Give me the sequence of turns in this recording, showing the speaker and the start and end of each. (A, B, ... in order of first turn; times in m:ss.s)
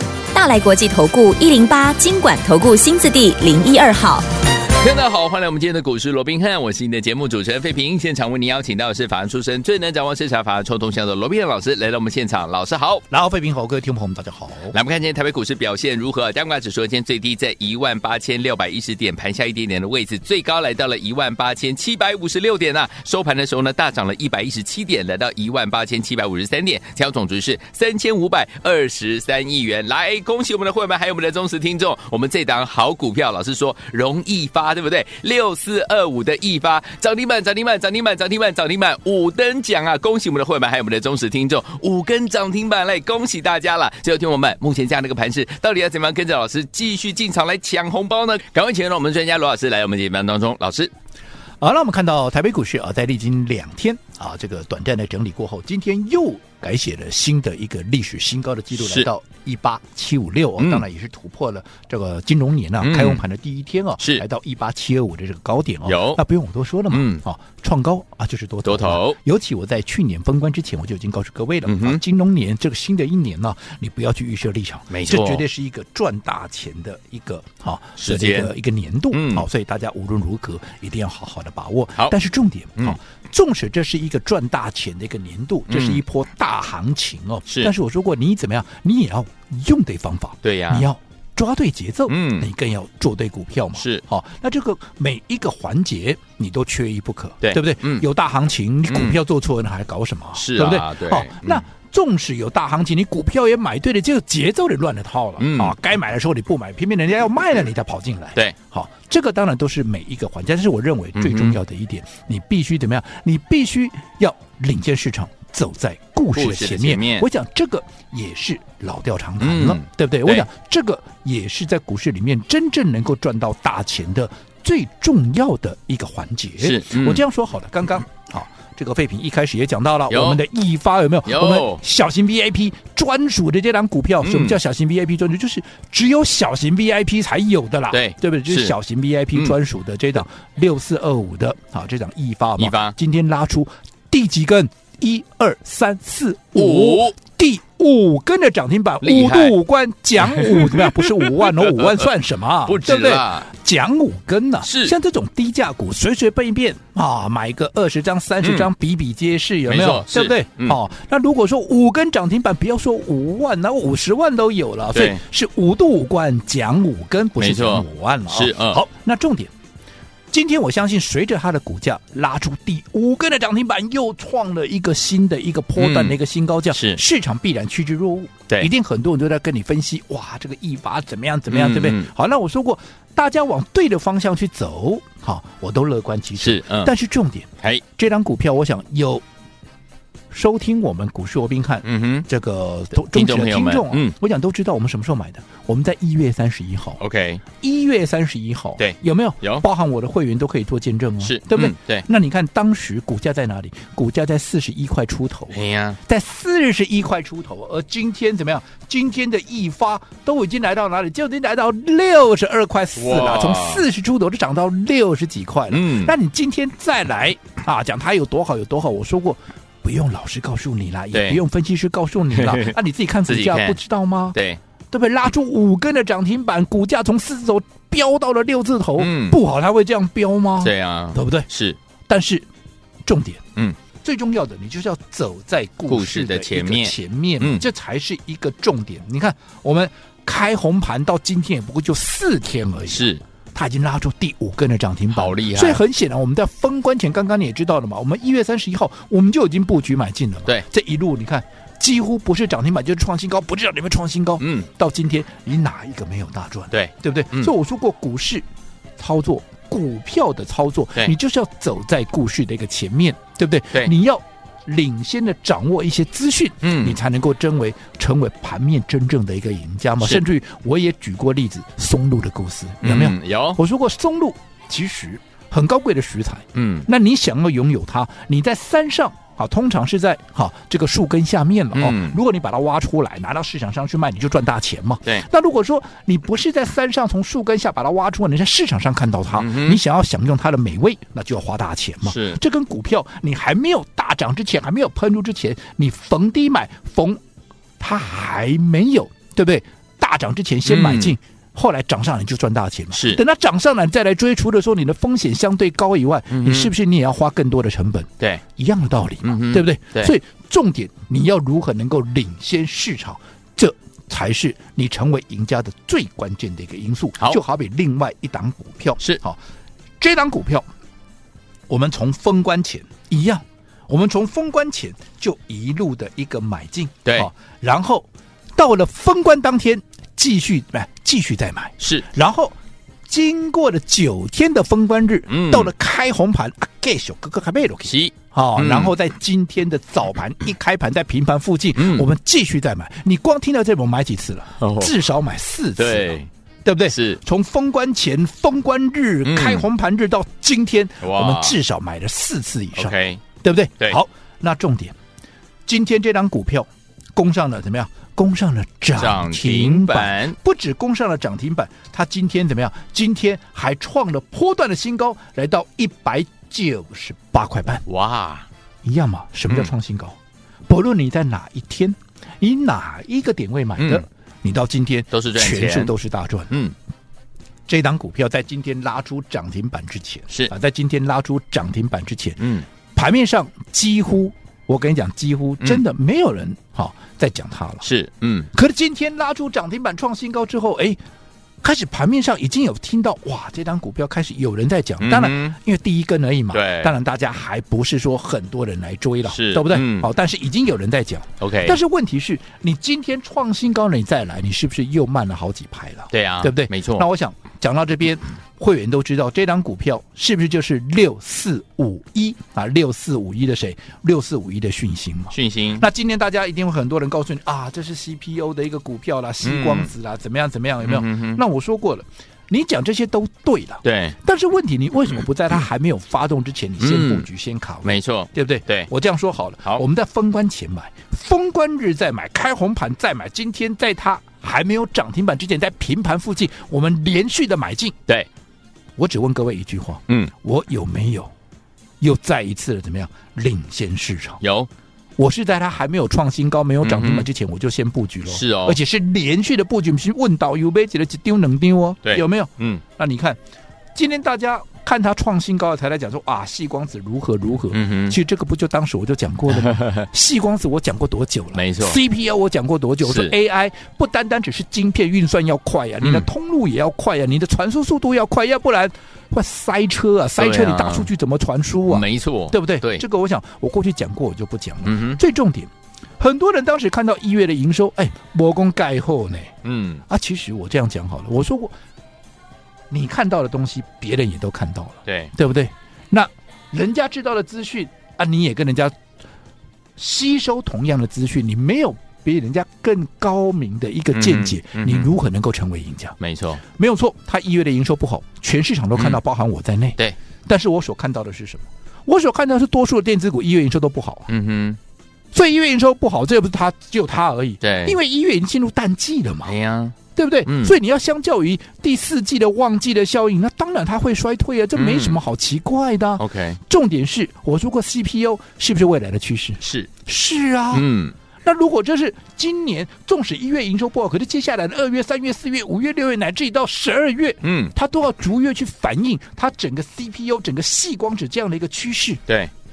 0:00.3-0:04.2 A
0:04.7-0:13.0 B
0:13.1-0:14.7 C
0:14.7-0:50.9 B
0:51.6-2:49.5 C
0:58.8-0:59.1 B
1:00.6-1:00.8 B
1:02.8-1:03.2 B
1:04.0-1:04.2 B
1:05.8-1:06.2 B
1:06.9-1:07.2 B
1:08.6-1:09.2 B
1:11.6-1:12.0 B
1:14.9-1:15.4 B
1:18.0-1:18.5 B
1:19.1-1:19.4 B
1:25.7-1:26.0 B
1:27.5-1:27.7 B
1:30.4-1:30.8 B
1:32.1-1:32.5 B
1:33.7-1:34.0 B
1:37.4-1:38.0 B
1:38.9-1:39.2 B
1:40.3-1:41.6 B
1:45.4-1:45.7 B
1:51.2-1:51.6 B
1:56.3-1:57.3 B
1:59.4-2:00.5 B
2:06.6-2:07.2 B
2:10.1-2:10.4 B
2:11.2-2:11.8 B
2:14.2-2:14.6 B
2:17.9-2:18.7 B
2:22.6-2:22.9 B
2:26.5-2:27.1 B
2:29.0-2:29.5 B
2:30.2-2:32.1 B
2:32.6-2:33.5 B
2:34.6-2:34.9 B
2:38.4-2:38.7 B
2:39.7-2:40.8 B
2:44.9-2:45.2 B
2:47.4-2:48.8 B
2:50.3-3:09.2 C
2:55.8-2:56.2 B
2:56.7-2:57.0 B
3:01.5-3:02.1 B
3:06.4-3:06.9 B
3:10.3-3:17.0 C
3:11.8-3:12.2 B
3:13.0-3:14.1 B
3:17.0-3:17.4 B
3:17.6-3:44.4 C
3:18.8-3:19.6 B
3:21.2-3:22.0 B
3:25.5-3:26.0 B
3:33.0-3:33.8 B
3:35.7-3:36.1 B
3:41.1-3:41.4 B
3:42.3-3:42.8 B
3:43.3-3:43.8 B
3:44.3-3:44.6 B
3:44.9-3:51.5 C
3:49.0-3:49.4 B
3:50.6-3:51.8 B
3:52.1-3:52.4 C
3:53.0-3:53.4 C
3:54.0-4:18.4 C
3:55.9-3:57.6 B
4:02.9-4:03.2 B
4:05.1-4:05.8 B
4:14.4-4:14.7 B
4:16.7-4:17.5 B
4:19.0-4:57.2 C
4:26.6-4:27.0 B
4:32.8-4:33.6 B
4:36.5-4:36.9 B
4:41.7-4:42.2 B
4:49.4-4:49.8 B
4:52.0-4:52.4 B
4:57.8-5:19.4 C
5:00.6-5:01.2 B
5:02.9-5:03.2 B
5:06.3-5:06.7 B
5:09.2-5:10.1 B
5:20.0-5:20.7 C
5:21.7-5:32.6 C
5:31.8-5:32.0 B
5:33.1-5:55.0 C
5:35.3-5:35.7 B
5:37.8-5:38.9 B
5:41.7-5:42.1 B
5:44.6-5:45.0 B
5:45.8-5:46.3 B
5:46.9-5:47.2 B
5:49.2-5:49.6 B
5:51.0-5:51.6 B
5:52.8-5:53.2 B
5:55.6-6:07.8 C
5:59.0-6:00.4 B
6:07.8-6:08.5 B
6:08.8-6:10.2 C
6:10.7-6:16.5 C
6:13.8-6:14.0 B
6:15.1-6:15.9 B
6:16.5-6:16.7 B
6:17.7-6:27.8 C
6:22.4-6:22.6 B
6:27.8-6:28.5 B
6:28.5-6:31.0 C
6:31.6-7:18.0 C
6:35.0-6:35.6 B
6:36.5-6:36.9 B
6:39.3-6:40.1 B
6:41.4-6:41.8 B
6:46.1-6:47.0 B
6:55.3-6:55.8 B
6:59.4-6:59.9 B
7:00.8-7:01.4 B
7:03.8-7:04.2 B
7:06.8-7:07.3 B
7:07.8-7:08.9 B
7:19.0-7:21.3 C
7:22.0-7:24.4 C
7:24.4-7:24.7 B
7:25.2-7:33.4 C
7:26.8-7:27.3 B
7:28.3-7:28.8 B
7:32.0-7:32.8 B
7:33.9-7:59.5 C
7:37.7-7:38.2 B
7:39.5-7:40.0 B
7:41.5-7:42.0 B
7:43.0-7:43.3 B
7:46.0-7:46.3 B
7:50.4-7:51.1 B
7:51.9-7:53.0 B
7:54.8-7:55.2 B
7:59.6-8:00.0 B
8:00.1-8:01.7 C
8:02.9-8:08.9 C
8:05.0-8:05.3 B
8:10.0-8:16.2 C
8:14.1-8:15.1 B
8:16.2-8:16.6 B
8:16.7-8:24.3 C
8:18.9-8:19.2 B
8:24.3-8:24.8 B
8:25.3-8:29.5 C
8:27.6-8:28.0 B
8:29.4-8:30.7 B
8:30.1-8:40.9 C
8:34.7-8:35.2 B
8:36.2-8:36.6 B
8:39.6-8:39.9 B
8:40.7-8:41.1 B
8:41.4-8:52.2 C
8:47.4-8:47.7 B